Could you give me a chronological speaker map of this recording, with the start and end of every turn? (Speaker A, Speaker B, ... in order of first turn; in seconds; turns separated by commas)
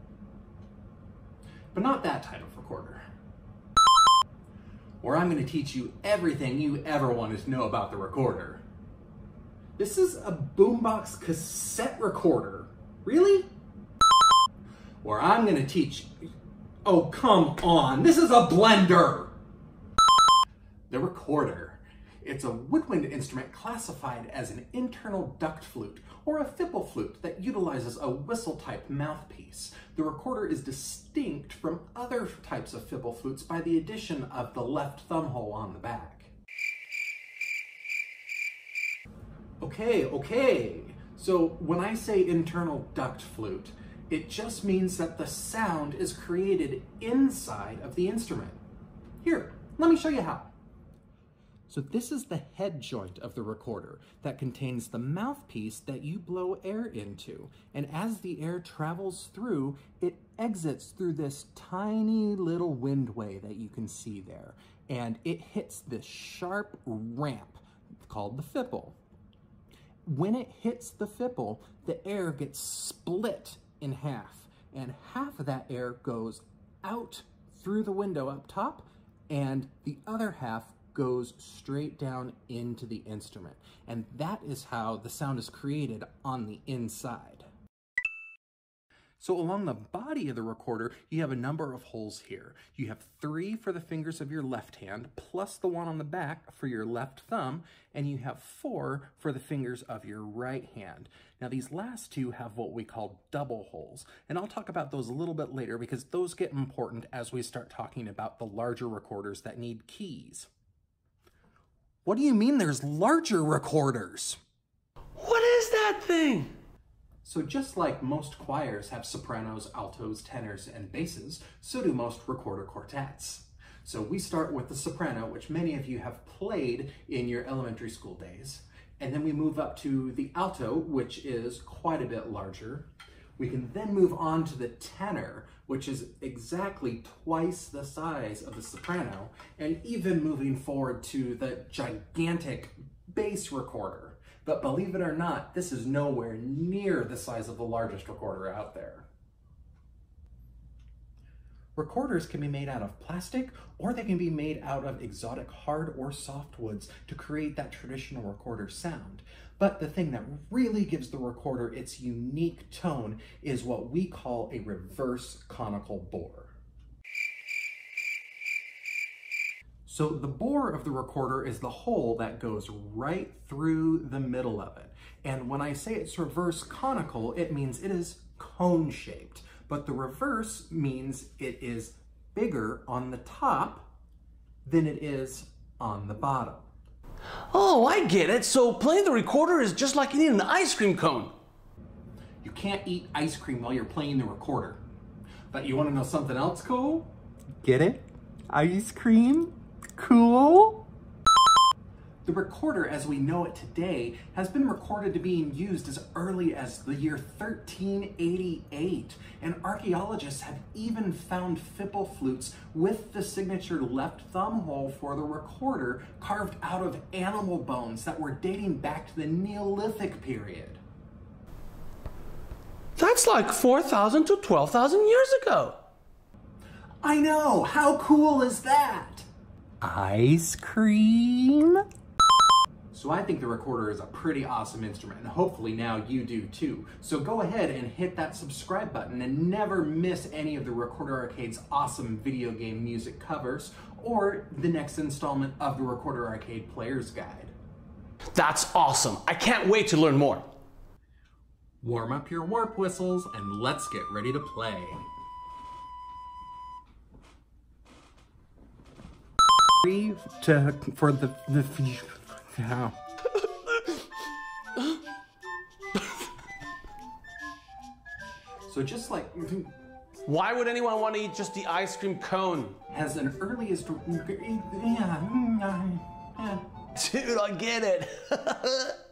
Speaker A: 1.7-3.0, Speaker A: 5.0-8.6, Speaker A: 9.8-13.5, Speaker A: 15.0-16.1, Speaker A: 16.8-19.3, Speaker A: 20.9-36.3, Speaker A: 39.6-48.6, Speaker A: 49.2-50.5, Speaker A: 51.7-69.0, Speaker A: 70.0-87.5, Speaker A: 89.2-110.5, Speaker A: 112.0-114.4, Speaker B: 115.2-116.5, Speaker A: 117.2-149.1, Speaker A: 151.8-166.6, Speaker A: 169.8-183.9, Speaker A: 184.6-186.7, Speaker B: 187.5-191.3, Speaker A: 192.4-194.8, Speaker A: 195.5-197.1, Speaker A: 197.6-200.8, Speaker A: 202.2-220.8, Speaker B: 223.0-225.8, Speaker A: 227.0-229.3, Speaker A: 229.8-231.8, Speaker A: 232.9-247.5, Speaker B: 248.3-250.5, Speaker A: 251.8-255.0, Speaker A: 259.8-263.0, Speaker A: 268.7-269.7, Speaker B: 270.2-272.8, Speaker A: 272.9-276.6, Speaker B: 276.9-278.9